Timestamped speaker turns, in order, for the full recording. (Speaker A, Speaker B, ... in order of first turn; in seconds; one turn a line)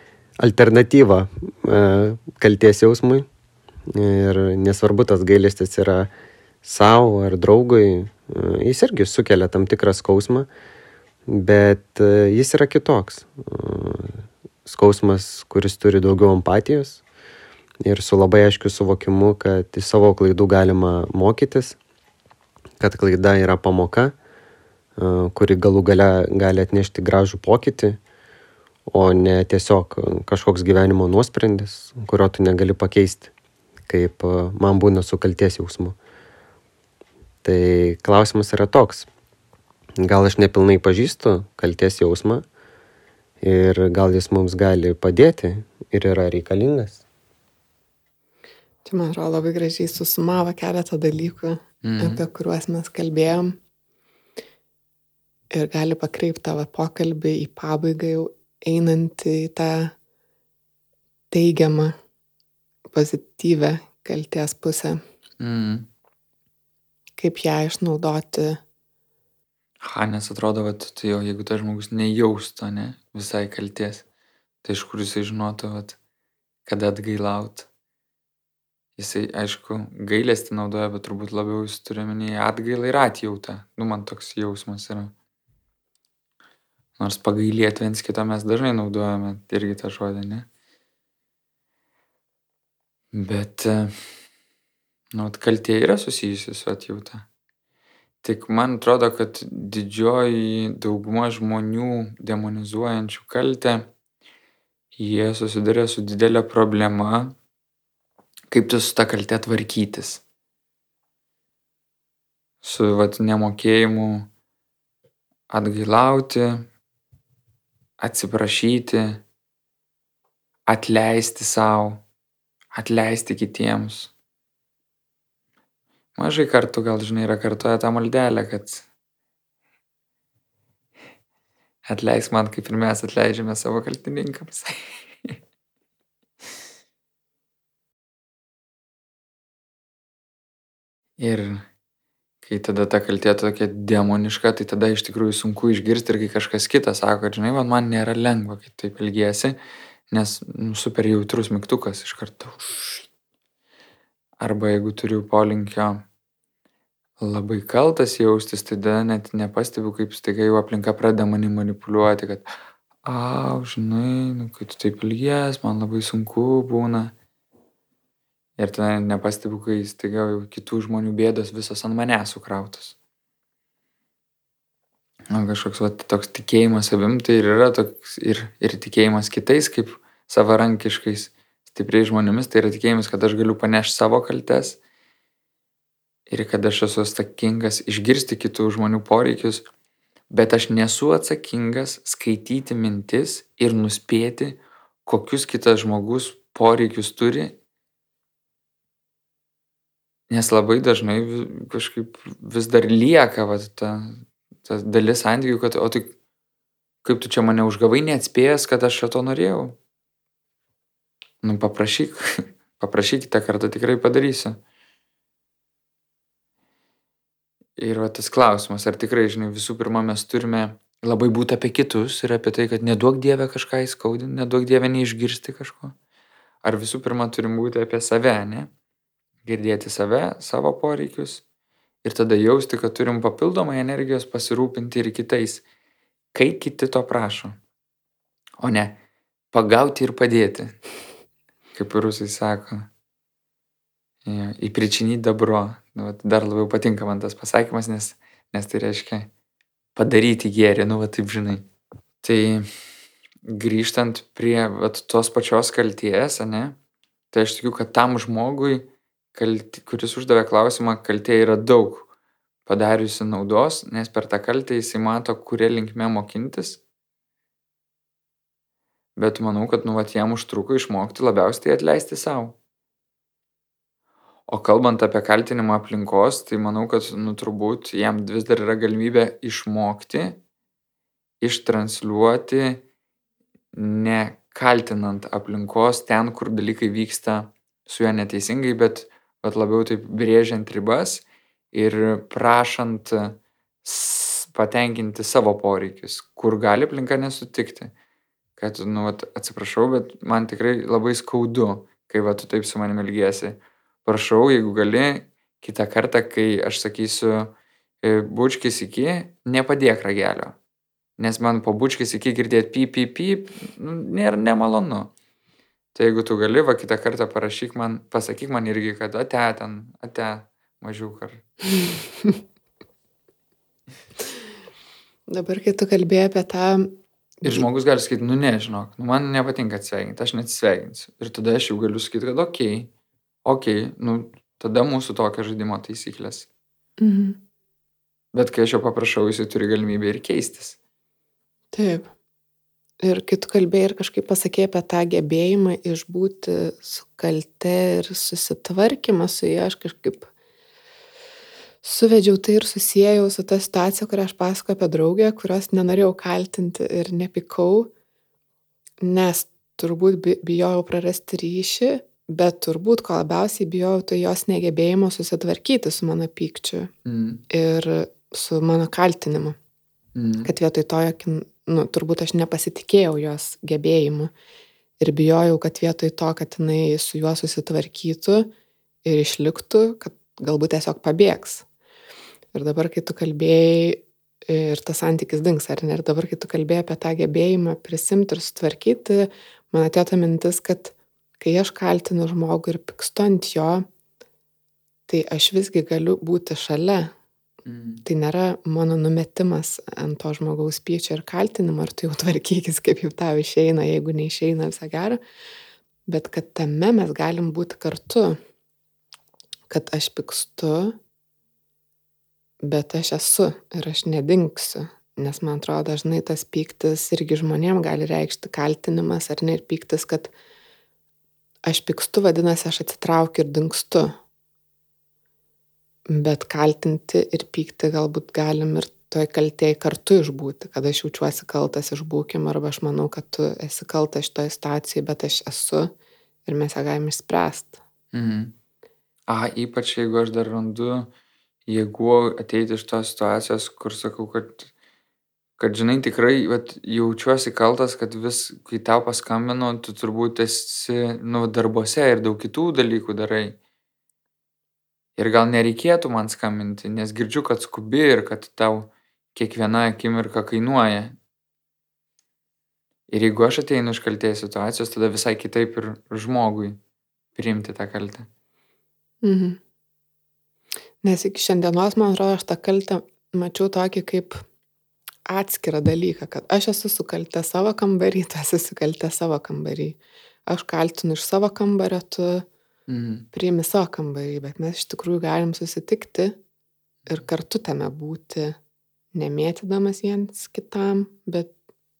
Speaker A: 0.4-3.3
Speaker A: 3.9-6.1
Speaker A: 6.6-10.5
Speaker A: 11.3-17.0
Speaker A: 17.8-21.8
Speaker A: 22.8-24.1
Speaker A: 25.0-28.0
Speaker A: 28.9-33.3
Speaker A: 33.9-36.0
Speaker A: 37.4-39.1
Speaker A: 40.0-42.4
Speaker A: 43.4-47.0
Speaker B: 48.8-53.6
Speaker C: 51.8-52.2
Speaker B: 55.5-59.9
Speaker B: 61.3-62.0
Speaker B: 62.9-65.0
Speaker C: 65.4-65.9
Speaker B: 67.2-68.6
Speaker C: 69.8-74.0
Speaker C: 74.6-76.0
Speaker C: 76.7-77.7
Speaker C: 79.0-85.1
Speaker C: 87.0-90.5
Speaker C: 93.1-94.0
Speaker C: 95.1-97.2
Speaker C: 98.2-103.9
Speaker C: 105.0-107.3
Speaker C: 108.5-110.2
Speaker C: 112.6-114.3
Speaker C: 115.5-116.6
Speaker C: 118.0-119.2
Speaker C: 120.7-122.0
Speaker C: 122.7-124.1
Speaker C: 126.2-128.8
Speaker C: 131.8-135.3
Speaker C: 141.2-141.6
Speaker C: 142.4-149.6
Speaker C: 150.1-153.0
Speaker C: 154.4-156.0
Speaker C: 157.2-162.4
Speaker C: 163.0-167.1
Speaker C: 168.6-172.9
Speaker C: 175.3-184.8
Speaker C: 186.3-189.7
Speaker C: 190.3-197.6
Speaker C: 200.3-206.1
Speaker C: 207.0-209.8
Speaker C: 211.4-214.6
Speaker C: 217.8-225.9
Speaker C: 226.6-228.7
Speaker C: 229.4-231.4
Speaker C: 232.0-235.6
Speaker C: 236.3-237.6
Speaker C: 238.6-239.0
Speaker C: 239.5-240.8
Speaker C: 241.7-242.9
Speaker C: 244.2-249.3
Speaker C: 249.9-251.7
Speaker C: 252.2-252.7
Speaker C: 253.4-256.8
Speaker C: 257.3-262.1
Speaker C: 262.6-266.8
Speaker C: 269.1-272.6
Speaker C: 274.5-280.4
Speaker C: 281.4-282.8
Speaker C: 283.7-297.9
Speaker C: 298.6-310.6
Speaker C: 311.2-315.1
Speaker C: 315.9-321.4
Speaker B: 321.8-322.4
Speaker B: 325.3-327.7
Speaker C: 327.4-332.9
Speaker C: 333.4-336.5
Speaker B: 337.0-337.4
Speaker C: 338.3-340.8
Speaker B: 341.7-342.1
Speaker B: 343.0-350.3
Speaker B: 351.8-357.9
Speaker B: 359.0-366.9
Speaker C: 367.0-367.4
Speaker B: 367.5-369.6
Speaker C: 370.1-370.5
Speaker B: 370.4-374.3
Speaker B: 375.0-378.5
Speaker B: 379.0-381.6
Speaker B: 382.5-393.9
Speaker B: 395.1-397.1
Speaker C: 397.6-398.0
Speaker B: 398.0-405.2
Speaker B: 406.1-408.4
Speaker B: 409.7-411.0
Speaker B: 412.6-420.3
Speaker B: 421.6-424.1
Speaker B: 426.1-435.9
Speaker B: 436.4-437.8
Speaker C: 438.1-438.5
Speaker C: 439.3-441.1
Speaker C: 441.7-444.7
Speaker C: 445.6-453.6
Speaker C: 455.2-461.1
Speaker C: 463.1-466.8
Speaker C: 467.3-468.3
Speaker B: 469.2-469.6
Speaker B: 471.0-474.4
Speaker B: 475.2-482.5
Speaker C: 482.9-483.3
Speaker B: 483.3-486.4
Speaker B: 487.1-488.6
Speaker B: 489.1-491.5